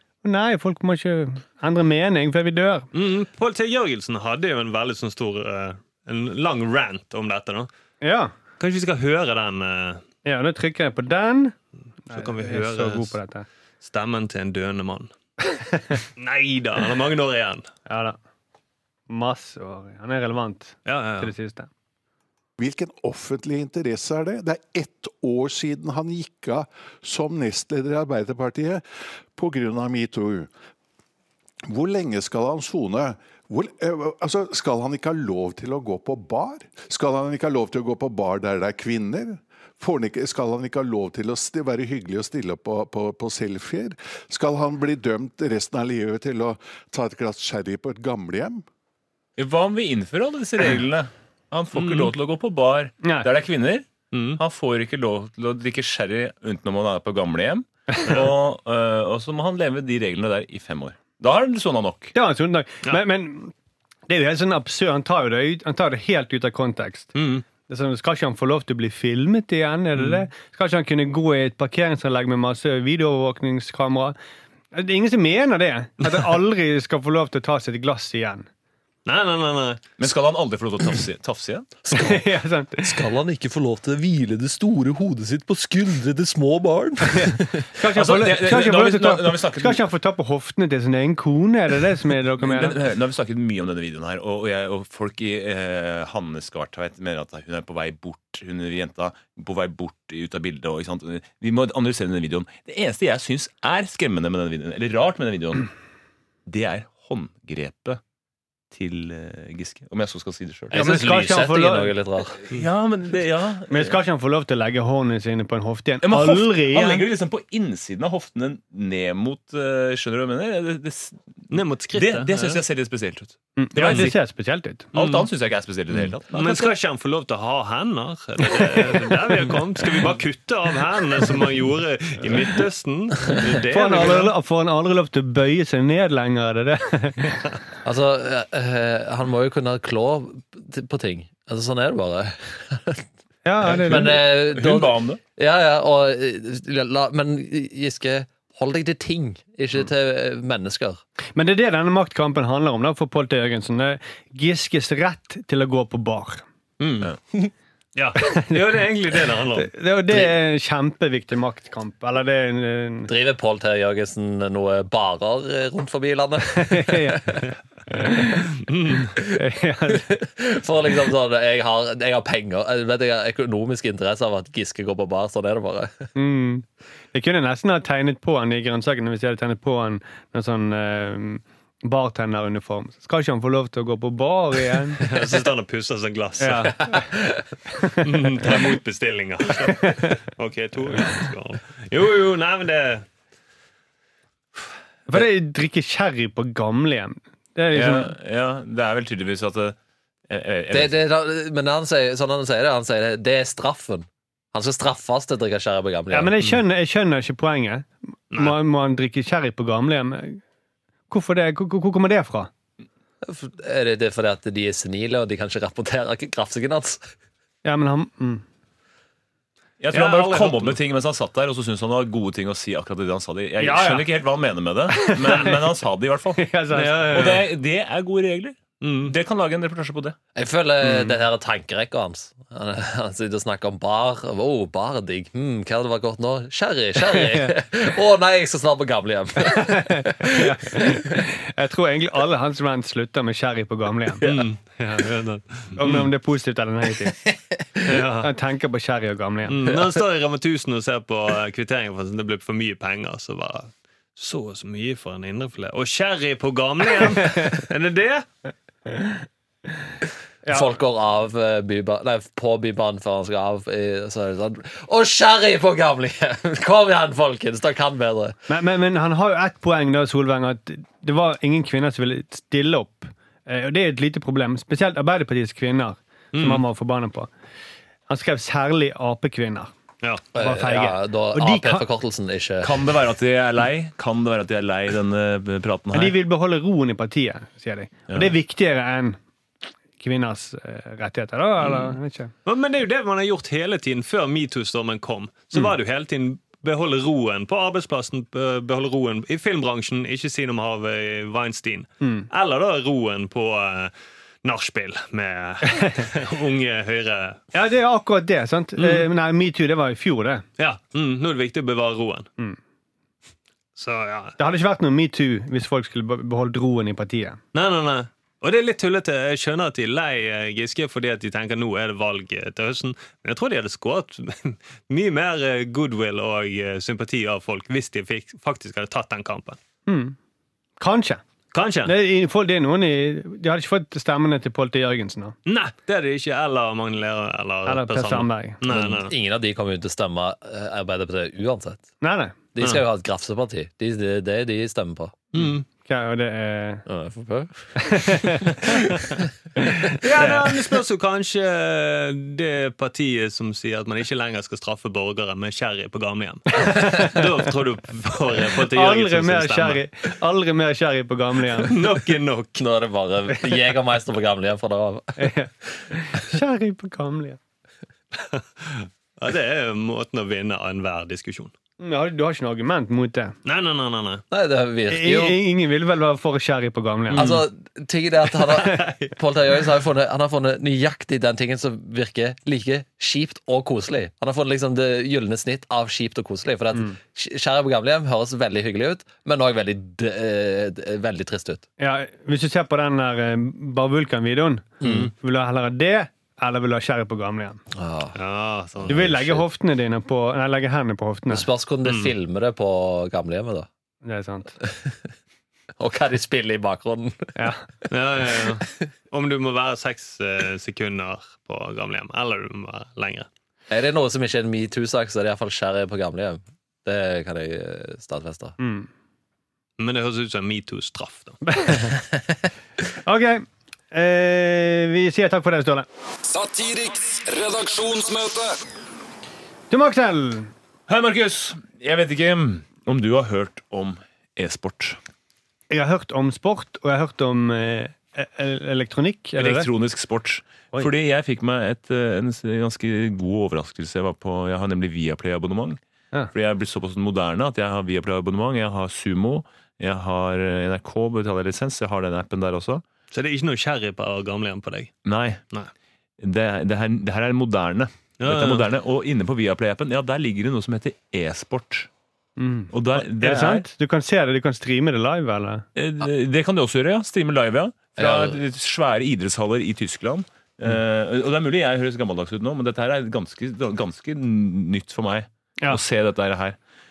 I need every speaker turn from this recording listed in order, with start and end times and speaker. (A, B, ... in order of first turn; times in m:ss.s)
0:00.2-0:02.9 A
0:02.9-0:07.7 B
0:08.0-0:08.3 A
0:08.6-0:10.0 B
0:10.2-0:11.6 A
0:12.1-0:13.5 A
0:12.1-0:13.2 B
0:13.8-0:15.1 B
0:15.7-0:16.0 A
0:16.2-0:17.7 B
0:17.9-0:18.2 A
0:19.1-0:21.7 A
0:20.9-0:21.3 B
0:22.6-0:30.5 C
0:31.7-0:48.6 C
0:49.4-1:02.1 D
0:51.7-0:52.1 B
0:53.0-0:53.3 A
0:54.1-0:54.4 B
1:02.1-1:03.5 A
1:04.1-1:07.2 A
1:07.2-1:07.4 B
1:07.7-1:14.2 A
1:10.0-1:10.3 B
1:14.7-1:18.5 A
1:19.1-1:19.8 B
1:20.0-1:21.7 D
1:21.8-1:22.2 E
1:21.9-1:23.0 A
1:22.8-1:27.7 E
1:27.1-1:32.8 A
1:27.9-1:29.8 D
1:32.4-1:45.7 D
1:46.5-1:48.0 D
1:48.7-1:50.8 D
1:50.7-1:52.4 E
1:50.7-1:52.0 A
1:52.5-1:54.0 D
1:53.7-1:57.1 A
1:56.0-2:01.3 D
2:01.5-2:02.6 B
2:01.9-2:04.2 D
2:03.6-2:04.9 A
2:03.8-2:04.1 B
2:04.9-2:05.3 B
2:04.9-2:06.7 D
2:05.9-2:14.3 B
2:13.4-2:14.0 D
2:13.7-2:17.4 A
2:17.8-2:23.0 E
2:23.4-2:24.2 A
2:23.7-2:25.2 D
2:23.8-2:31.0 E
2:31.4-2:36.4 A
2:38.0-2:39.7 B
2:39.5-2:43.1 A
2:43.1-2:47.4 E
2:46.6-2:48.4 A
2:48.7-2:49.1 B
2:49.1-2:56.1 E
2:49.4-2:50.1 A
2:56.2-3:05.0 A
3:05.0-3:06.9 B
3:06.4-3:07.0 A
3:06.9-3:07.4 E
3:08.0-3:13.0 B
3:15.1-3:18.1 A
3:17.7-3:19.8 D
3:20.3-3:21.0 D
3:20.7-3:26.3 E
3:26.1-3:30.4 A
3:28.3-3:28.6 B
3:31.1-3:32.5 A
3:33.2-3:37.1 E
3:37.6-3:38.4 A
3:39.8-3:46.4 D
3:39.9-3:40.8 B
3:43.6-3:44.1 A
3:44.9-3:45.6 A
3:46.4-3:47.4 A
3:46.7-3:47.5 B
3:47.1-3:50.2 D
3:48.8-3:49.1 B
3:50.4-4:01.2 E
3:50.8-3:51.1 A
3:57.2-3:57.5 A
3:59.5-4:04.2 A
4:04.2-4:06.1 B
4:05.8-4:07.2 A
4:07.3-4:07.9 E
4:07.9-4:08.3 B
4:08.2-4:09.6 A
4:09.5-4:18.3 B
4:20.5-4:28.4 E
4:28.5-4:37.3 A
4:36.3-4:36.6 B
4:38.1-4:39.7 A
4:40.3-4:42.8 E
4:40.4-4:41.9 A
4:42.6-4:46.2 D
4:45.9-4:49.2 A
4:48.1-4:48.3 D
4:50.0-4:52.3 A
4:51.6-4:51.9 B
4:52.5-5:03.9 B
5:02.0-5:02.3 A
5:04.4-5:07.4 B
5:07.5-5:10.4 A
5:08.8-5:09.1 B
5:10.6-5:12.3 B
5:13.8-5:14.4 B
5:14.4-5:17.4 A
5:17.5-5:29.6 B
5:29.9-5:30.2 A
5:30.8-5:31.2 A
5:31.5-5:31.9 B
5:31.8-5:35.4 A
5:35.5-5:39.1 B
5:37.7-5:38.6 A
5:38.7-5:41.9 E
5:42.0-5:42.4 A
5:42.5-5:45.2 E
5:45.3-5:45.6 B
5:45.8-5:46.8 A
5:46.9-5:48.1 E
5:47.8-5:48.8 A
5:49.6-5:50.4 A
5:50.0-5:59.8 B
5:56.6-5:57.2 A
5:58.7-6:01.8 A
6:01.6-6:02.6 B
6:02.6-6:05.3 E
6:05.2-6:07.4 A
6:08.2-6:11.5 B
6:11.8-6:13.4 A
6:13.4-6:14.2 B
6:14.3-6:15.4 E
6:14.9-6:17.3 A
6:17.1-6:17.4 B
6:17.2-6:31.6 E
6:18.4-6:19.1 B
6:31.8-6:37.6 A
6:34.8-6:35.1 E
6:34.8-6:35.1 B
6:37.7-6:38.2 E
6:38.2-6:39.2 B
6:38.8-6:39.4 E
6:38.9-6:41.5 A
6:41.3-6:43.7 E
6:41.8-6:42.1 B
6:44.0-6:44.6 A
6:44.6-6:45.0 E
6:45.8-6:47.5 E
6:47.4-6:47.6 A
6:47.9-6:53.3 B
6:48.2-6:48.6 E
6:53.7-6:58.6 E
6:58.6-6:58.9 A
6:59.8-7:01.4 B
7:01.6-7:01.9 A
7:03.0-7:05.9 A
7:06.3-7:08.6 F
7:09.7-7:10.5 A
7:10.9-7:15.0 D
7:15.7-7:19.7 A
7:19.4-7:25.8 D
7:26.3-7:32.8 D
7:33.1-7:34.9 B
7:35.0-7:35.4 D
7:36.2-7:41.9 D
7:38.2-7:38.7 B
7:42.4-7:45.7 A
7:42.7-7:43.7 D
7:45.8-7:56.6 D
7:48.0-7:48.4 E